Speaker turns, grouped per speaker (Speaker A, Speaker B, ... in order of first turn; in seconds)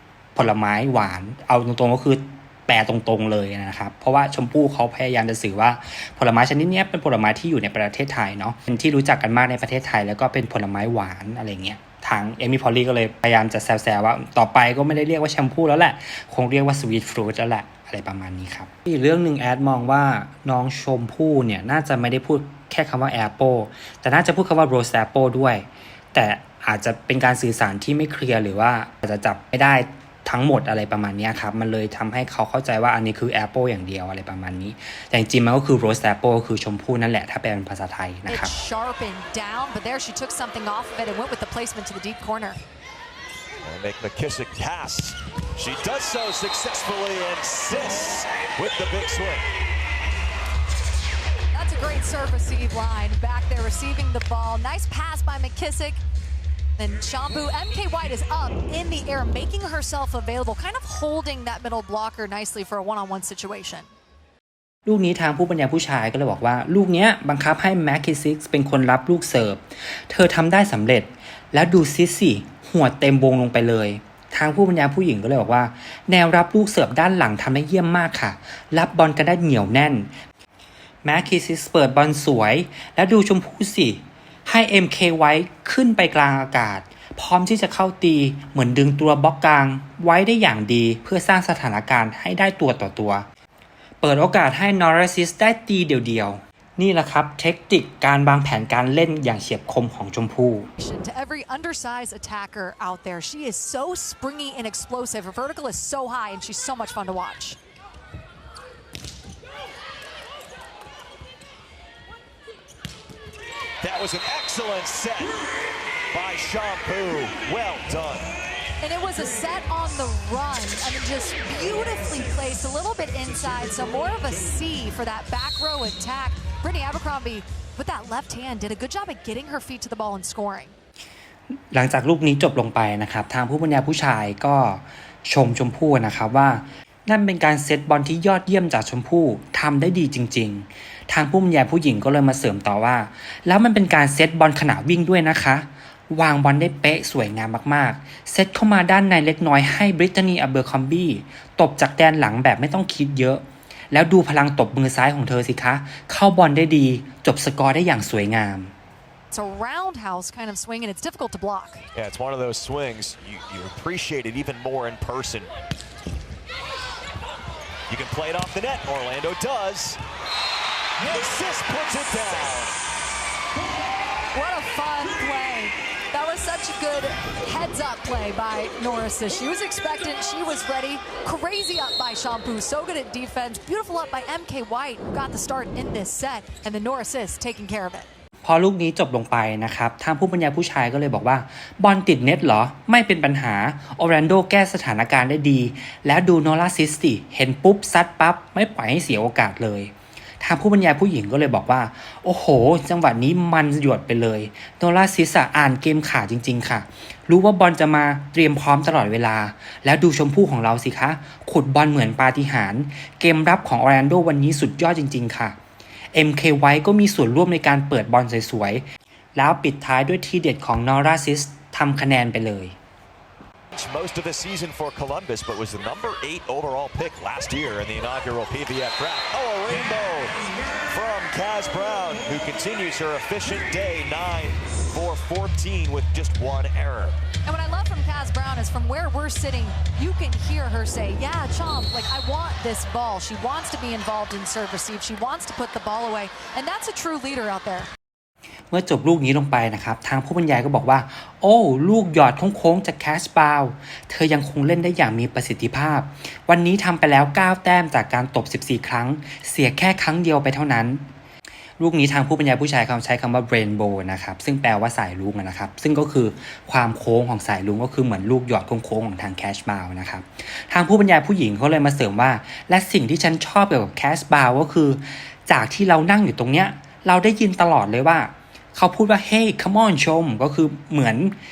Speaker A: 0.3-38.5, 64.9-80.1, 81.0-93.3, 94.0-100.7, 131.7-158.7, 188.4-215.6, 216.1-218.8, 219.3-222.8, 248.7-261.1, 261.8-281.4
Speaker B: 38.3-42.6, 51.5-56.0, 56.8-63.9, 100.8-107.6, 118.8-130.7, 159.3-161.8, 174.3-188.1, 237.5-247.9
Speaker C: 43.6-49.5, 113.8-115.5, 116.1-118.3, 161.9-165.5, 167.9-170.0, 171.0-172.8, 223.7-237.2